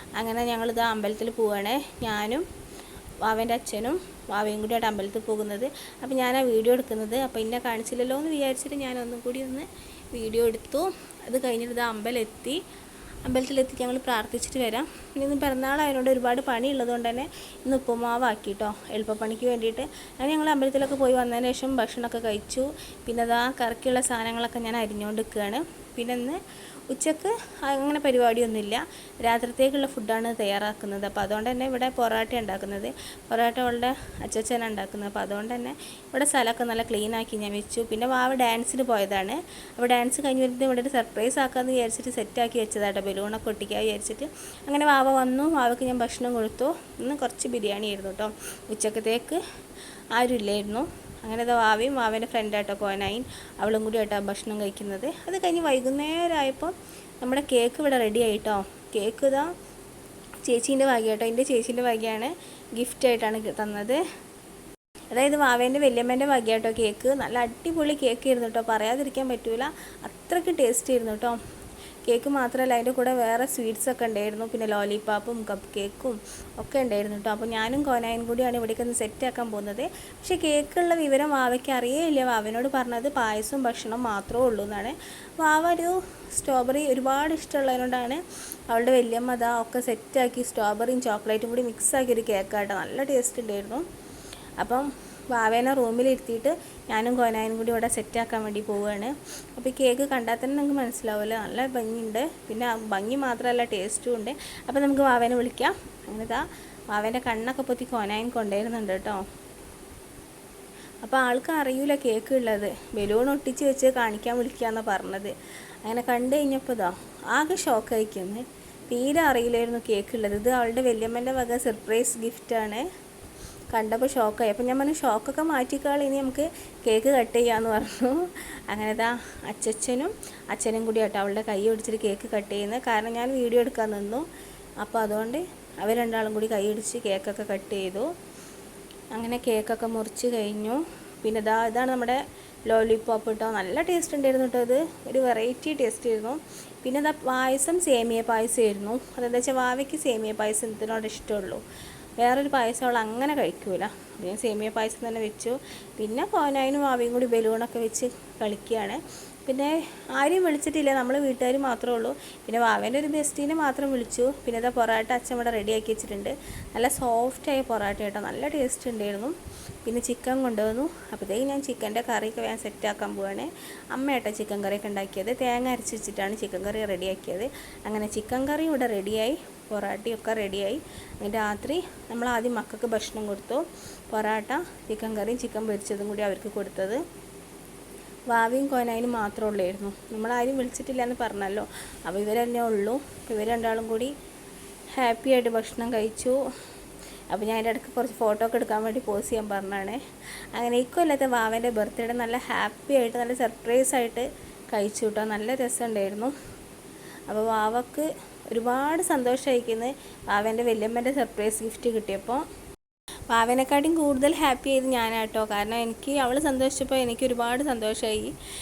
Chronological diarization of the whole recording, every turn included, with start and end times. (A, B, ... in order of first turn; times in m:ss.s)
0:00.2-0:02.4 A
0:03.2-0:12.6 A
0:13.2-0:26.4 A
0:26.9-0:49.4 A
0:50.1-0:59.5 A
1:00.4-1:04.0 A
1:05.1-1:11.4 A
1:12.0-1:33.8 A
1:34.6-1:49.2 A
1:51.0-2:02.9 A
2:03.7-2:14.2 A
2:14.8-2:18.1 A
2:19.1-2:31.6 A
2:32.2-3:07.0 A
3:08.3-3:14.1 A
3:14.9-3:16.4 A
3:17.3-3:20.0 A
3:20.5-3:26.3 A
3:27.3-3:32.4 A
3:33.3-3:38.3 A